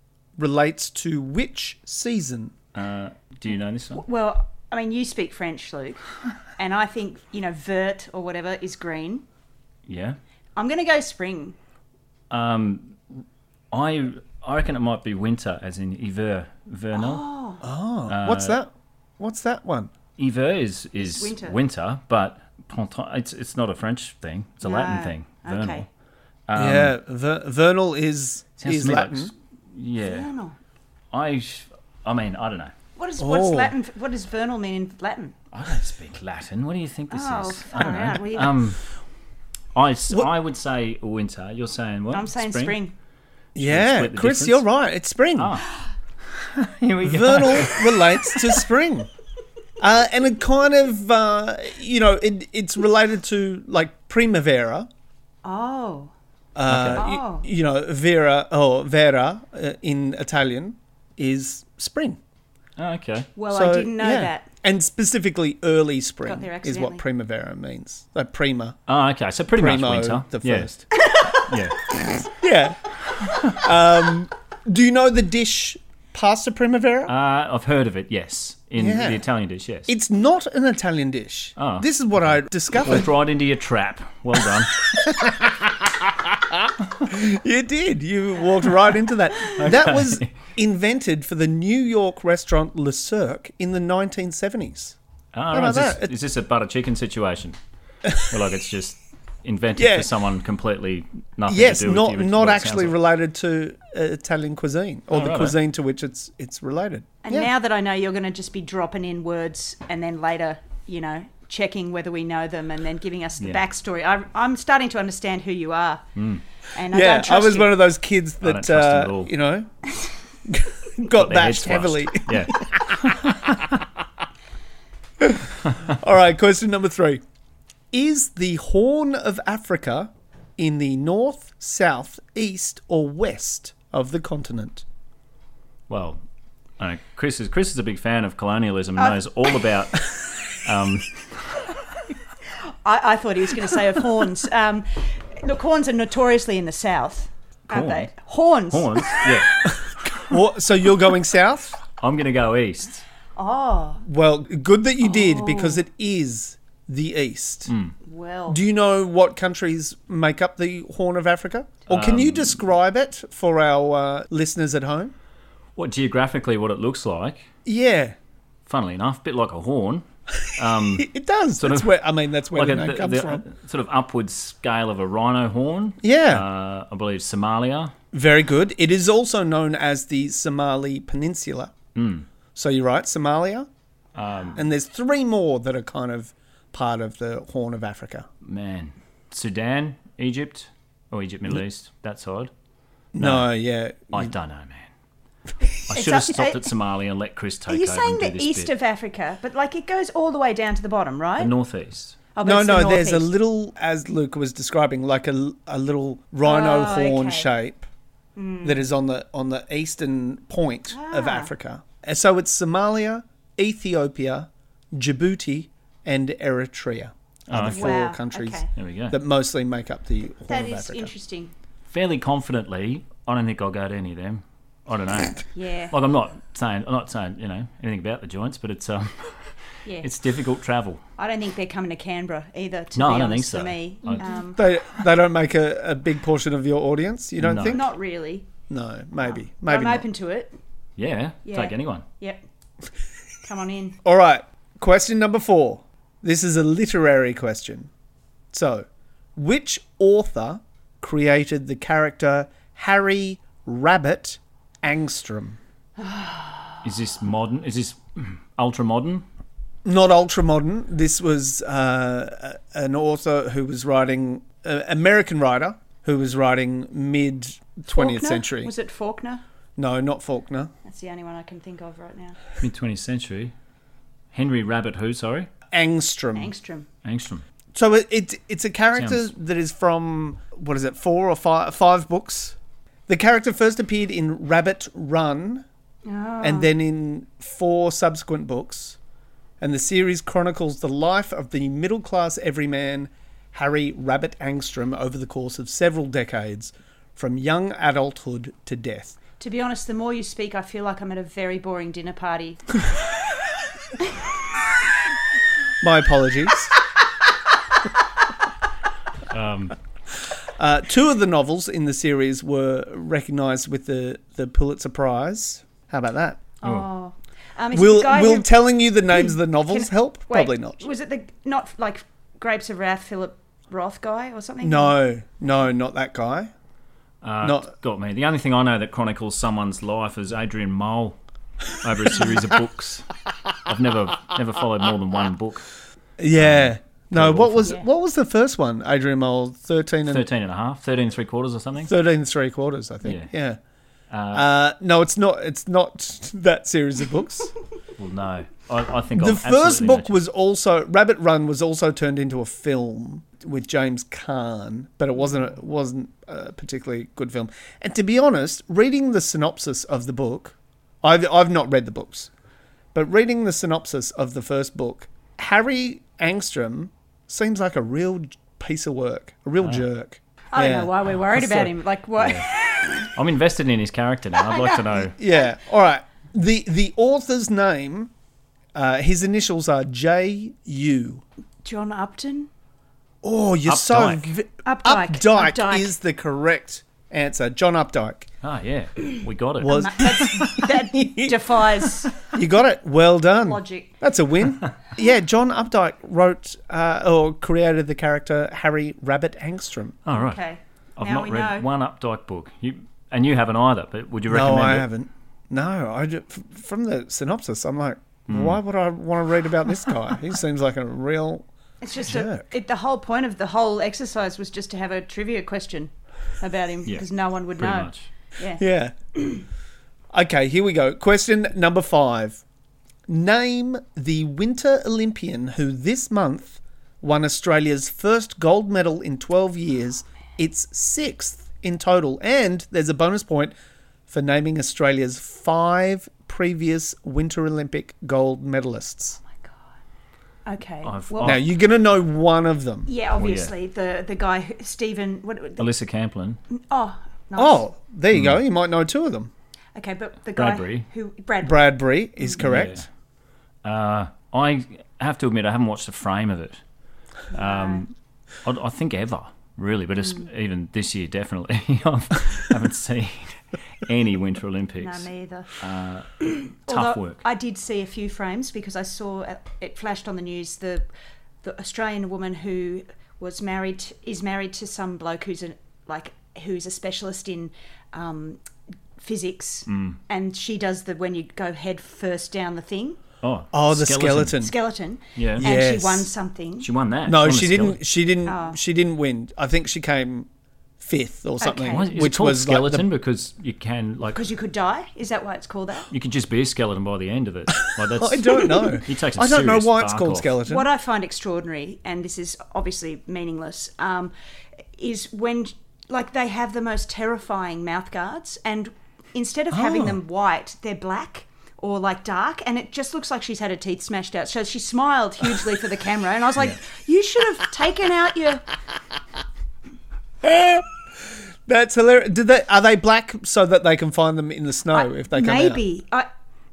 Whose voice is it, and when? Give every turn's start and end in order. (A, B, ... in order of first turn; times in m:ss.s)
0:00.4-0:02.6 A
0:02.7-0:04.0 B
0:04.0-0:06.0 C
0:06.6-0:09.2 C
0:09.9-0:10.2 B
0:10.6-0:11.6 C
0:12.3-0:13.0 B
0:13.7-0:17.2 B
0:17.0-0:17.6 C
0:17.6-0:19.9 A
0:18.1-0:18.6 B
0:20.2-0:25.9 B
0:21.0-0:21.6 C
0:24.6-0:25.9 C
0:26.5-0:26.9 B
0:26.6-0:29.3 A
0:28.6-0:30.3 B
0:30.0-0:30.6 C
0:31.1-0:32.7 B
0:33.0-0:35.4 C
0:33.2-0:33.7 A
0:35.5-0:38.8 B
0:37.1-0:38.6 C
0:39.8-0:42.8 B
0:42.1-0:42.9 C
0:43.6-0:45.6 A
0:43.6-0:44.6 B
0:45.4-0:45.8 B
0:46.3-0:48.6 B
0:47.0-0:49.1 A
0:49.8-0:54.9 A
0:55.4-0:56.1 C
0:56.6-1:02.2 A
0:56.7-0:57.0 B
0:57.0-0:57.5 C
1:02.8-1:03.3 B
1:03.4-1:04.5 C
1:03.5-1:08.8 A
1:06.2-1:07.0 C
1:08.9-1:10.7 B
1:09.5-1:10.8 A
1:11.0-1:11.4 C
1:11.4-1:11.8 B
1:12.3-1:17.1 A
1:17.1-1:19.9 B
1:18.8-1:19.2 A
1:19.9-1:23.1 A
1:21.6-1:21.9 B
1:22.8-1:24.9 B
1:24.9-1:35.0 A
1:29.6-1:30.3 B
1:35.3-1:37.6 B
1:35.5-1:36.1 A
1:38.2-1:43.0 B
1:39.8-1:40.1 A
1:41.5-1:47.5 A
1:45.1-1:45.6 B
1:47.2-1:56.0 C
1:56.2-1:56.4 B
1:56.7-1:57.8 C
1:56.9-1:59.7 A
1:58.4-1:59.3 B
2:00.5-2:03.6 A
2:01.2-2:03.7 B
2:05.2-2:07.2 A
2:07.9-2:14.8 A
2:15.9-2:16.2 B
2:16.8-2:21.6 B
2:22.8-2:29.4 C
2:27.7-2:28.1 B
2:28.7-2:30.2 B
2:30.3-2:31.8 A
2:32.0-2:33.0 B
2:33.4-2:34.0 C
2:34.0-2:37.7 A
2:35.0-2:35.8 C
2:37.7-2:38.0 B
2:38.0-2:38.6 C
2:38.5-2:45.1 A
2:41.9-2:42.6 B
2:45.8-2:47.5 B
2:47.7-2:48.2 A
2:48.7-2:51.9 B
2:51.0-2:53.4 A
2:52.5-2:57.9 B
2:56.0-2:56.4 A
2:58.1-3:01.7 A
3:02.0-3:02.3 B
3:02.6-3:03.7 A
3:04.2-3:04.7 B
3:04.6-3:08.3 A
3:08.4-3:12.5 B
3:13.1-3:14.3 A
3:13.2-3:13.5 B
3:14.1-3:14.9 B
3:15.9-3:18.7 B
3:15.9-3:16.7 C
3:17.7-3:21.5 C
3:21.4-3:22.2 B
3:22.4-3:23.3 C
3:22.4-3:27.9 A
3:26.4-3:27.5 C
3:28.4-3:28.9 C
3:28.6-3:41.1 A
3:30.9-3:31.5 C
3:37.5-3:38.0 B
3:37.7-3:38.7 C
3:38.8-3:39.2 B
3:40.5-3:41.5 C
3:41.9-3:51.0 B
3:45.6-3:45.9 C
3:49.8-3:50.1 C
3:51.2-3:54.6 C
3:53.0-3:54.2 B
3:54.5-3:57.9 A
3:57.4-3:57.8 B
3:57.7-3:58.5 C
3:58.7-4:00.1 A
3:59.2-4:00.6 C
4:01.0-4:02.0 B
4:01.4-4:02.4 C
4:03.4-4:04.0 C
4:04.0-4:07.9 A
4:08.5-4:15.6 A
4:16.0-4:16.8 C
4:16.8-4:19.2 B
4:19.8-4:28.7 A
4:27.9-4:29.4 C
4:29.8-4:30.7 A
4:30.8-4:32.4 C
4:32.6-4:33.5 B
4:34.3-4:35.5 B
4:35.7-4:36.5 A
4:36.4-4:36.9 C
4:37.0-4:37.4 B
4:37.7-4:42.6 A
4:43.1-4:45.7 A
4:46.1-4:46.7 C
4:46.4-4:49.0 A
4:49.6-4:59.2 A
4:59.4-5:02.6 C
5:05.8-5:06.7 A
5:09.3-5:09.8 B
5:10.6-5:16.5 A
5:16.6-5:18.5 C
5:17.7-5:20.9 A
5:19.1-5:25.0 C
5:24.6-5:26.5 A
5:27.2-5:31.2 B
5:27.4-5:27.7 A
5:31.7-5:33.1 B
5:33.6-5:35.7 B
5:36.2-5:40.3 A
5:36.4-5:37.8 B
5:40.1-5:41.9 B
5:41.8-5:43.6 A
5:43.0-5:43.3 B
5:44.1-5:44.5 B
5:44.3-5:47.5 A
5:48.0-5:50.2 B
5:49.2-6:02.3 A
6:02.9-6:10.9 A
6:10.5-6:13.1 C
6:11.3-6:12.5 B
6:13.0-6:15.2 B
6:14.5-6:14.8 C
6:15.0-6:18.1 A
6:18.7-6:21.2 A
6:21.6-6:22.5 C
6:23.2-6:28.3 A
6:23.7-6:24.3 B
6:24.6-6:26.0 C
6:28.4-6:30.6 B
6:29.6-6:31.4 A
6:29.6-6:32.1 C
6:32.2-6:40.0 A
6:33.4-6:33.9 C
6:40.0-6:40.4 B
6:40.1-6:41.7 C
6:41.0-6:44.9 B
6:44.3-6:51.5 A
6:48.3-6:48.6 B
6:51.8-6:58.6 C
6:52.0-6:52.5 A
6:56.9-6:58.1 B
6:58.6-6:59.0 A
6:59.2-6:59.4 C
7:00.1-7:02.4 A
7:03.1-7:13.6 A
7:14.1-7:19.2 A
7:19.3-7:19.7 C
7:20.5-7:21.4 C
7:20.8-7:21.4 B
7:21.2-7:22.9 A
7:22.9-7:25.7 C
7:23.2-7:23.5 B
7:25.6-7:26.4 B
7:26.5-7:27.6 C
7:27.4-7:29.3 A
7:28.1-7:28.4 B
7:29.8-7:32.4 C
7:30.4-7:30.9 B
7:31.4-7:32.9 A
7:32.4-7:32.9 B
7:33.6-7:36.6 B
7:37.3-7:37.8 C
7:37.3-7:37.9 B
7:38.4-7:47.2 B
7:44.8-7:45.5 C
7:46.7-7:50.9 C
7:51.4-7:58.4 C
7:59.0-8:03.0 C
7:59.7-8:00.0 B
8:03.2-8:04.4 B
8:03.5-8:04.5 A
8:04.4-8:06.7 C
8:05.2-8:05.5 B
8:05.4-8:06.1 A
8:06.6-8:07.8 B
8:07.0-8:10.3 A
8:08.3-8:08.6 C
8:10.8-8:12.9 A
8:11.4-8:11.9 C
8:11.7-8:14.2 B
8:14.1-8:15.9 C
8:15.9-8:20.3 B
8:17.9-8:20.7 A
8:20.5-8:24.1 C
8:24.8-8:38.5 C
8:29.5-8:30.0 A
8:40.2-8:45.6 A
8:44.7-8:46.1 C